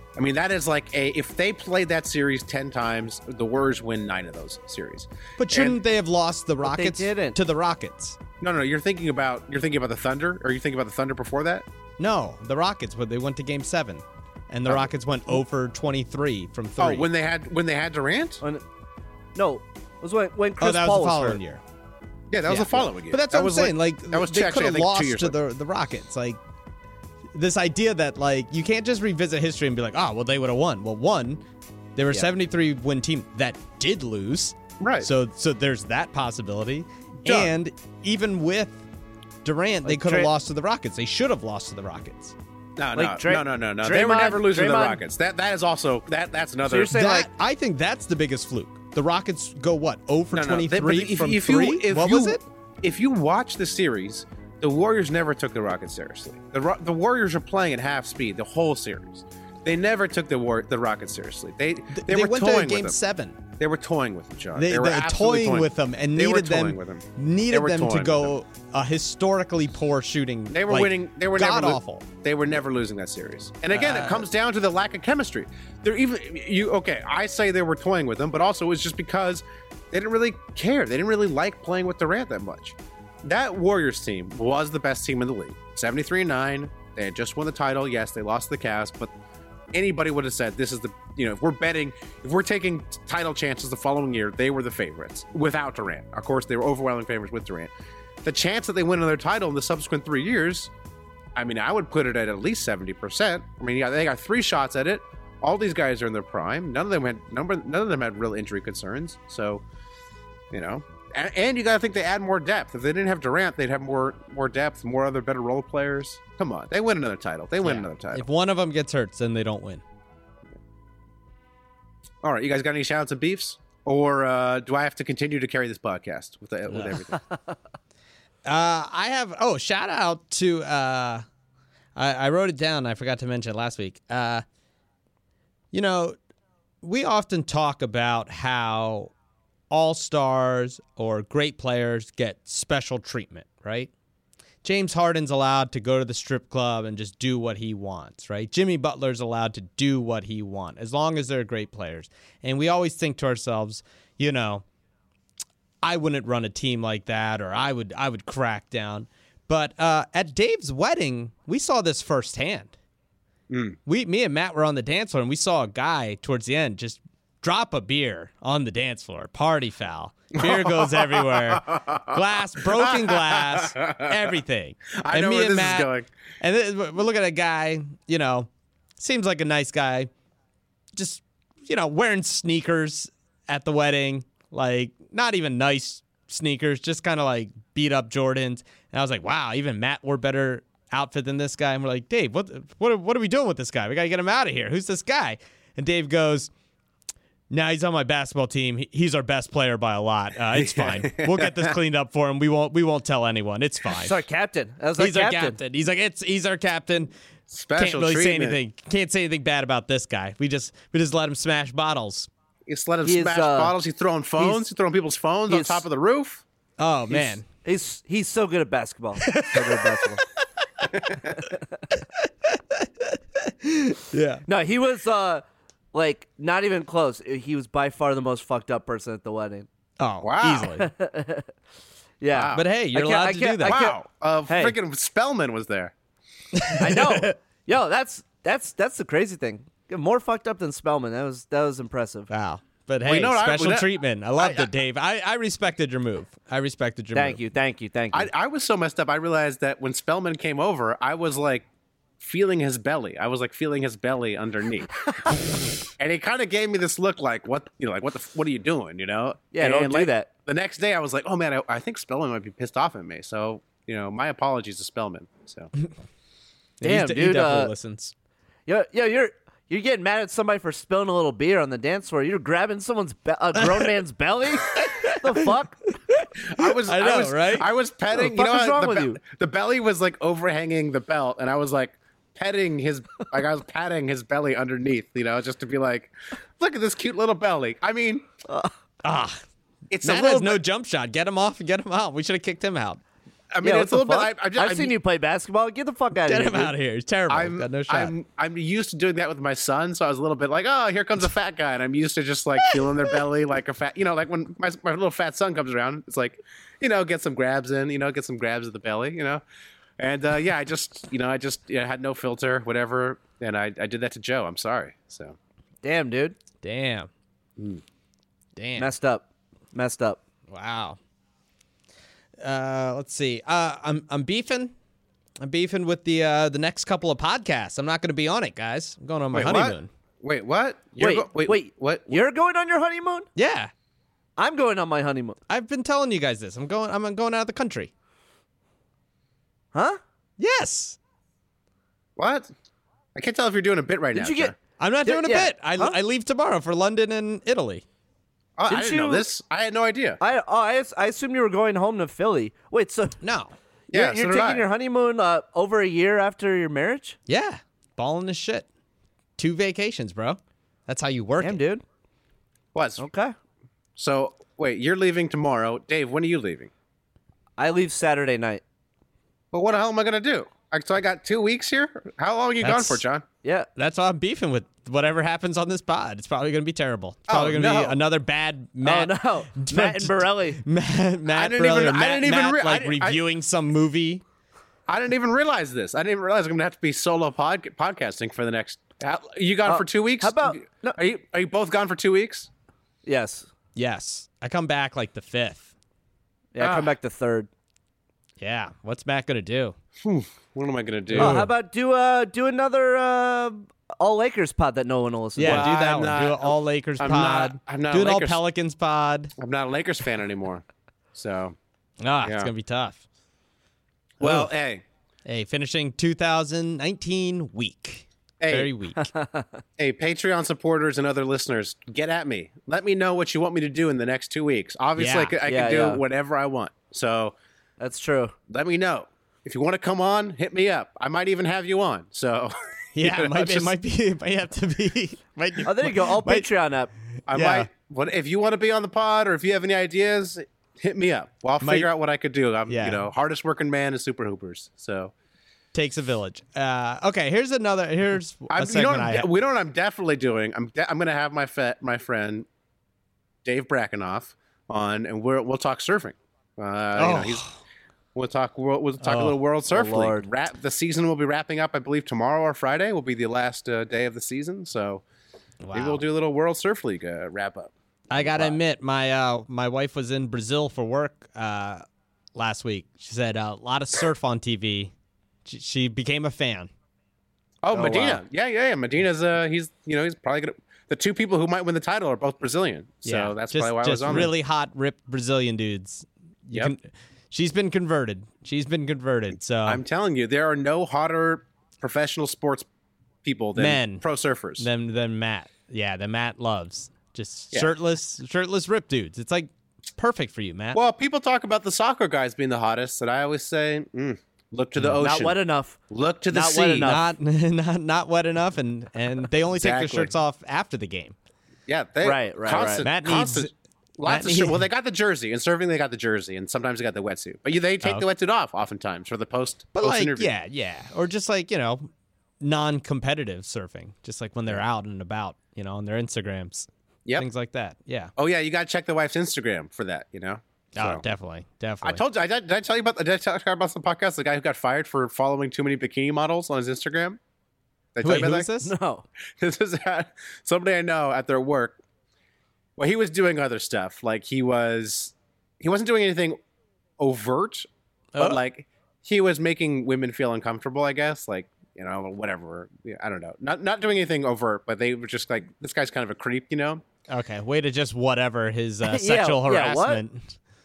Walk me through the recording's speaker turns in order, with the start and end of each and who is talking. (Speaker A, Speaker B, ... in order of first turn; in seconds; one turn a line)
Speaker A: 0.2-5.8
Speaker B: 5.4-8.2
Speaker C: 6.6-7.4
Speaker A: 8.4-11.7
Speaker B: 12.0-17.1
Speaker A: 14.7-15.4
Speaker A: 16.8-18.4
Speaker C: 19.4-21.4
Speaker B: 20.6-21.6
Speaker A: 22.3-25.4
Speaker B: 22.4-26.4
Speaker B: 27.3-31.4
Speaker B: 32.0-38.8
Speaker A: 34.8-35.1
Speaker A: 37.2-37.5
Speaker B: 39.4-42.4
Speaker C: 39.9-40.3
Speaker A: 42.8-47.0
Speaker C: 43.0-45.0
Speaker C: 46.7-47.3
Speaker B: 46.9-52.4
Speaker A: 50.3-63.0
Speaker B: 61.9-63.4
Speaker A: 63.6-68.3
Speaker B: 64.5-72.1
Speaker A: 70.5-89.1
Speaker B: 73.7-74.3
Speaker A: 89.7-97.7
Speaker A: 98.2-100.7
Speaker A: 101.3-109.6
Speaker A: 110.5-118.3
Speaker B: 117.6-119.8
Speaker A: 122.2-127.2
Speaker B: 126.7-127.0
Speaker B: 128.4-131.3
Speaker B: 132.0-134.4
Speaker B: 135.7-136.2
Speaker B: 136.8-139.1
Speaker B: 139.7-143.9
Speaker B: 144.6-154.6
Speaker B: 155.8-162.7
Speaker A: 163.5-163.8
Speaker B: 163.9-175.9
Speaker A: 170.4-172.1
Speaker A: 172.8-174.2
Speaker A: 175.0-176.1
Speaker B: 176.4-180.1
Speaker B: 180.9-196.5
Speaker B: 197.5-204.2
Speaker A: 200.6-201.6
Speaker C: 204.0-205.6
Speaker B: 205.0-207.1
Speaker A: 207.5-208.6
Speaker B: 207.8-212.3
Speaker A: 212.7-216.4
Speaker C: 213.1-213.8
Speaker C: 215.5-215.8
Speaker B: 216.8-217.4
Speaker C: 217.1-220.2
Speaker B: 219.2-220.4
Speaker B: 222.2-224.4
Speaker C: 224.5-225.4
Speaker C: 225.9-229.7
Speaker B: 230.0-230.9
Speaker A: 230.2-230.7
Speaker C: 230.8-231.5
Speaker C: 232.2-234.0
Speaker A: 232.3-232.7
Speaker B: 232.5-233.8
Speaker A: 233.6-235.9
Speaker C: 234.5-234.8
Speaker B: 236.5-237.3
Speaker C: 236.8-242.3
Speaker B: 242.3-247.4
Speaker A: 243.1-244.7
Speaker C: 247.1-248.3
Speaker A: 248.1-251.7
Speaker A: 252.2-255.1
Speaker A: 255.9-265.7
Speaker C: 259.5-260.3
Speaker B: 266.8-268.1
Speaker C: 266.8-267.7
Speaker C: 268.7-275.8
Speaker B: 274.8-275.3
Speaker B: 276.1-277.7
Speaker A: 276.4-288.3
Speaker C: 278.1-279.2
Speaker C: 288.5-288.7
Speaker B: 289.0-289.4
Speaker A: 289.9-290.6
Speaker B: 290.0-293.0
Speaker A: 293.5-294.9
Speaker C: 293.6-296.7
Speaker B: 296.2-298.1
Speaker A: 297.3-309.4
Speaker B: 302.6-303.2
Speaker A: 310.0-315.4
Speaker C: 315.8-316.4
Speaker B: 316.6-317.1
Speaker B: 318.6-318.9
Speaker C: 318.8-320.2
Speaker B: 320.5-321.0
Speaker B: 322.4-324.7
Speaker B: 325.4-329.9
Speaker A: 329.3-332.2
Speaker C: 331.0-333.3
Speaker B: 333.4-333.7
Speaker C: 334.4-335.4
Speaker B: 335.5-337.9
Speaker C: 339.7-340.0
Speaker B: 340.4-341.0
Speaker A: 342.2-342.5
Speaker A: 343.1-344.6
Speaker C: 344.1-344.5
Speaker B: 344.8-347.8
Speaker C: 345.1-346.0
Speaker A: 348.6-350.2
Speaker C: 348.7-349.3
Speaker C: 350.2-353.2
Speaker B: 353.2-353.5
Speaker A: 353.9-354.7
Speaker C: 353.9-357.2
Speaker B: 357.3-358.7
Speaker B: 359.4-361.6
Speaker C: 361.4-361.8
Speaker A: 362.7-363.0
Speaker C: 363.0-363.4
Speaker A: 364.0-366.7
Speaker C: 367.6-368.6
Speaker A: 369.5-373.2
Speaker B: 372.6-373.0
Speaker C: 373.4-373.7
Speaker B: 373.8-384.2
Speaker A: 377.3-378.0
Speaker C: 378.8-380.6
Speaker A: 381.3-383.2
Speaker A: 384.9-392.5
Speaker C: 389.6-391.0
Speaker C: 393.1-393.5
Speaker B: 393.8-395.7
Speaker C: 396.6-397.5
Speaker A: 396.6-396.9
Speaker B: 398.4-399.8
Speaker A: 400.0-401.5
Speaker B: 401.1-401.5
Speaker C: 401.1-405.7
Speaker B: 405.4-409.3
Speaker A: 405.4-408.4
Speaker A: 409.4-411.6
Speaker B: 412.0-413.0
Speaker A: 412.2-412.5
Speaker B: 414.2-414.5
Speaker A: 414.2-414.8
Speaker B: 415.3-419.1
Speaker A: 418.4-418.7
Speaker C: 419.0-419.5
Speaker A: 419.8-427.4
Speaker B: 425.0-425.4
Speaker C: 425.4-426.0
Speaker C: 427.8-428.4
Speaker A: 428.5-433.7
Speaker B: 432.9-436.5
Speaker C: 435.6-436.9
Speaker B: 437.3-437.7
Speaker A: 437.3-445.1
Speaker B: 441.6-441.9
Speaker B: 442.7-443.1
Speaker B: 445.7-449.3
Speaker A: 448.5-452.5
Speaker A: 453.4-457.5
Speaker B: 456.9-457.6
Speaker A: 458.1-465.0
Speaker B: 459.0-459.4
Speaker C: 459.7-460.3
Speaker B: 465.6-466.0
Speaker A: 465.7-468.6
Speaker B: 468.1-471.8
Speaker B: 472.4-474.9
Speaker B: 475.4-476.7
Speaker A: 477.6-484.3
Speaker C: 477.7-478.2
Speaker B: 483.1-489.8
Speaker A: 489.6-492.7
Speaker A: 493.2-494.7
Speaker B: 493.6-494.0
Speaker B: 494.6-500.8
Speaker A: 500.7-507.0
Speaker B: 504.8-505.0
Speaker C: 505.0-505.8
Speaker C: 506.3-507.0
Speaker B: 506.8-511.1
Speaker A: 509.6-510.1
Speaker A: 511.7-520.3
Speaker C: 512.0-512.9
Speaker B: 512.5-513.5
Speaker B: 514.0-514.7
Speaker B: 519.8-528.1
Speaker A: 528.2-531.0
Speaker B: 530.8-532.0
Speaker A: 531.8-537.2
Speaker A: 538.0-538.5
Speaker B: 538.0-538.7
Speaker C: 538.6-539.0
Speaker A: 539.4-541.8
Speaker A: 542.8-546.4
Speaker A: 547.0-556.8
Speaker B: 548.1-548.4
Speaker B: 557.1-560.4
Speaker C: 558.9-560.0